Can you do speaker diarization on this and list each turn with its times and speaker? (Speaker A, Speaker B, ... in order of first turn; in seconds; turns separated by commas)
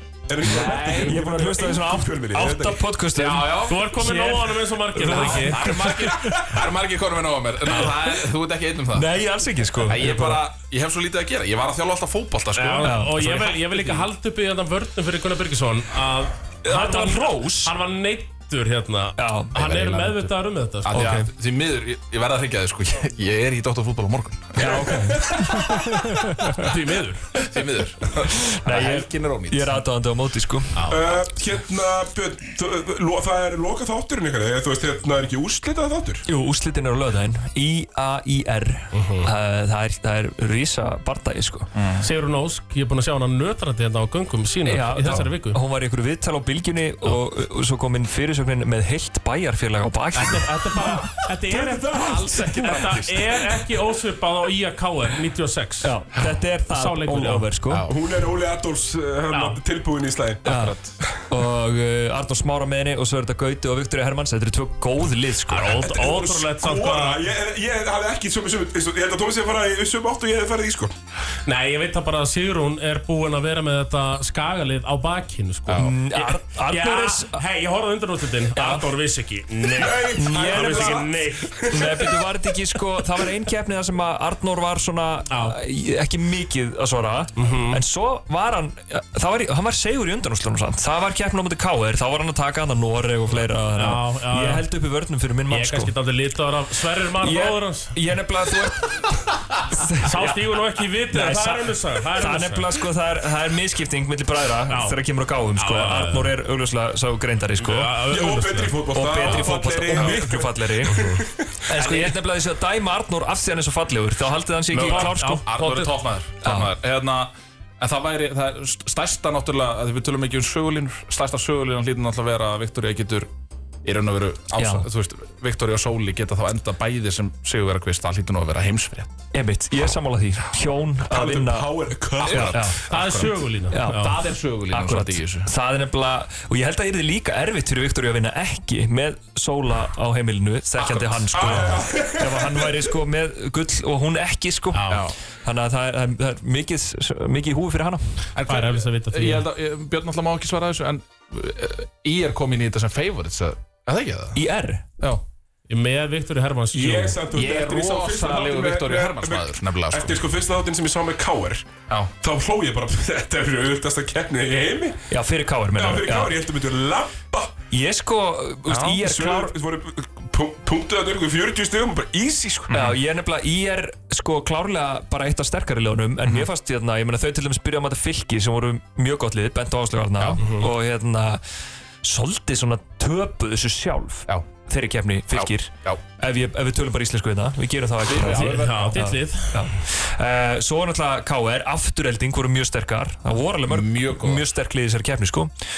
Speaker A: 0.3-2.8, Speaker B: 0.4-1.2, Speaker C: 1.0-6.4, Speaker B: 3.1-3.9, Speaker D: 3.7-5.7, Speaker B: 5.0-9.1, Speaker C: 7.7-8.2, Speaker C: 8.9-10.4, Speaker B: 9.8-14.1, Speaker D: 12.6-21.1, Speaker C: 12.8-13.5, Speaker C: 16.6-17.8, Speaker C: 19.2-20.1, Speaker B: 19.6-20.1, Speaker B: 20.9-25.7, Speaker C: 20.9-21.3, Speaker C: 24.6-26.5, Speaker A: 24.6-25.6, Speaker D: 26.6-27.4, Speaker B: 27.4-29.8, Speaker C: 28.2-30.9, Speaker D: 30.8-31.0, Speaker A: 30.9-36.3, Speaker C: 36.3-41.7, Speaker D: 38.9-39.3, Speaker B: 41.8-42.1, Speaker D: 42.0-45.6, Speaker C: 44.7-50.5, Speaker D: 50.1-55.9, Speaker A: 50.7-53.1, Speaker B: 52.1-53.1, Speaker C: 55.8-57.9, Speaker D: 56.7-57.5, Speaker A: 57.8-60.5, Speaker D: 59.3-59.6, Speaker C: 60.5-60.8, Speaker B: 60.5-60.9, Speaker C: 61.3-66.1, Speaker D: 65.5-67.2, Speaker A: 65.8-70.9, Speaker D: 71.5-81.7, Speaker B: 75.7-75.9, Speaker C: 75.8-77.4, Speaker C: 78.5-78.9, Speaker A: 79.7-82.2, Speaker C: 80.2-81.1, Speaker C: 81.7-95.9, Speaker D: 85.3-85.6, Speaker D: 87.4-87.8, Speaker D: 93.8-94.7, Speaker D: 95.5-98.0, Speaker C: 97.2-100.5, Speaker D: 100.0-102.7, Speaker C: 101.1-108.0, Speaker D: 104.7-105.0, Speaker D: 105.6-106.3, Speaker D: 107.6-108.8, Speaker A: 108.1-111.6, Speaker C: 108.9-111.0, Speaker B: 109.2-110.2, Speaker D: 110.9-111.2, Speaker C: 111.7-115.5, Speaker B: 111.7-112.2, Speaker B: 114.7-123.3, Speaker D: 114.8-116.0, Speaker C: 116.4-116.7, Speaker B: 123.8-129.1, Speaker C: 124.5-124.9, Speaker C: 129.3-131.7, Speaker A: 131.1-132.7, Speaker B: 132.2-135.5, Speaker C: 132.2-132.8, Speaker D: 132.9-134.2, Speaker C: 133.7-148.0, Speaker B: 140.7-141.8, Speaker A: 141.3-142.9, Speaker D: 144.7-145.1, Speaker B: 144.9-145.2, Speaker B: 148.3-154.4, Speaker D: 148.4-149.4, Speaker C: 154.3-154.8, Speaker D: 155.7-157.2, Speaker A: 156.7-165.1, Speaker B: 157.3-160.2, Speaker C: 165.1-166.4, Speaker A: 165.8-167.6, Speaker C: 167.7-169.6, Speaker A: 168.8-172.8, Speaker B: 172.7-173.0, Speaker C: 172.7-181.4, Speaker B: 180.2-180.4, Speaker D: 180.4-180.7, Speaker C: 182.0-195.5, Speaker B: 185.3-186.0, Speaker B: 188.0-189.0, Speaker D: 188.2-189.7, Speaker B: 193.7-194.4